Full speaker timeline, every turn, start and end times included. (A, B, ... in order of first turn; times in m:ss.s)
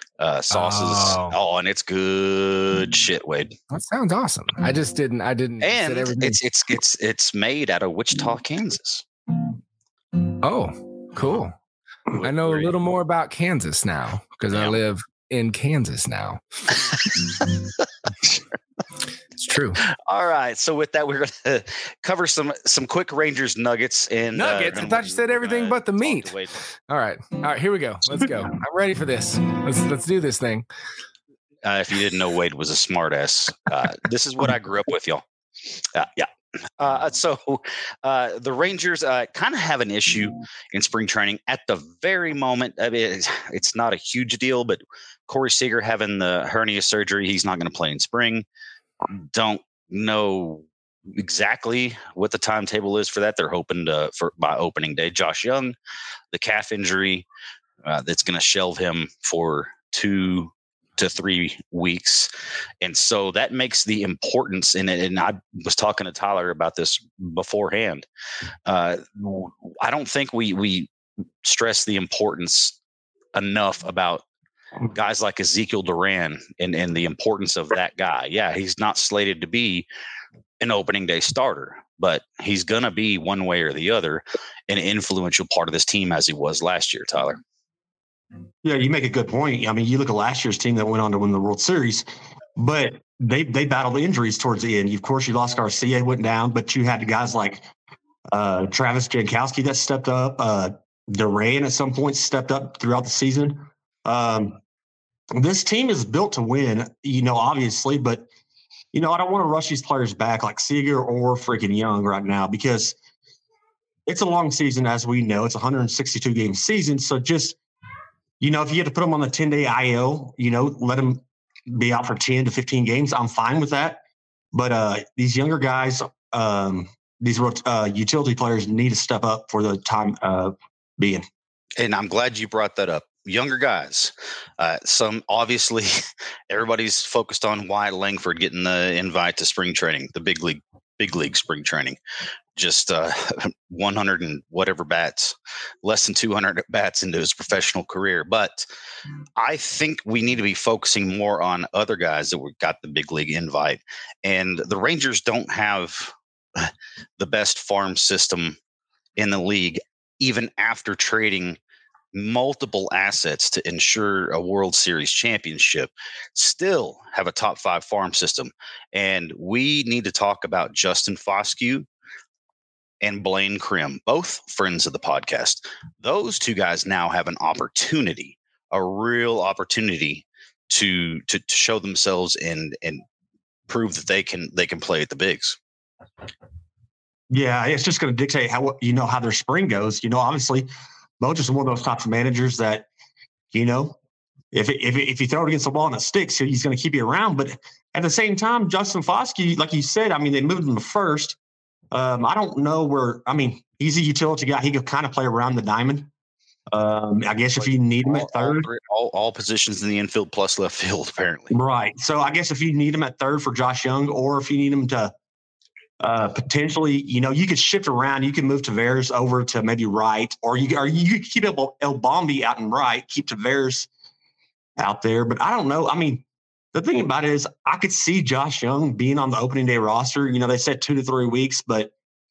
0:00.2-0:03.6 A
0:00.5-0:01.4 B
0:03.7-0:06.4 B
0:05.6-0:09.0 A
0:10.4-0:11.5 B
0:12.1-0:12.7 A
0:12.2-0:16.4 B
0:14.5-0:14.8 A
0:19.4-0:19.8 B
0:19.9-0:26.5 A
0:24.3-0:26.4 B
0:26.9-0:30.6 B
0:31.6-0:35.2 A
0:35.9-0:48.4 A
0:49.2-0:55.8 A
0:56.3-0:57.2 A
0:57.8-1:02.3 A
1:02.8-1:08.0 A
1:08.6-1:10.9 A
1:11.4-1:12.8 A
1:13.3-1:14.2 A
1:14.9-1:19.9 A
1:20.6-1:27.4 A
1:28.6-1:37.6 C
1:38.3-1:44.6 C
1:45.3-1:48.3 C
1:48.9-1:52.9 C
1:54.1-1:57.6 C
1:58.4-2:04.0 C
2:04.5-2:11.2 C
2:11.8-2:15.9 A
2:16.5-2:22.0 A
2:22.6-2:28.7 A
2:29.4-2:38.6 A
2:39.2-2:41.6 A
2:42.1-2:51.9 A
2:53.0-3:03.0 A
3:03.7-3:05.6 A
3:07.3-3:10.7 C
3:11.2-3:12.9 C
3:13.5-3:14.0 C
3:14.5-3:21.4 C
3:21.9-3:26.1 C
3:26.7-3:28.7 C
3:27.6-3:31.5 A
3:31.5-3:35.1 C
3:36.0-3:43.9 C
3:44.8-3:46.2 C
3:46.7-3:51.9 C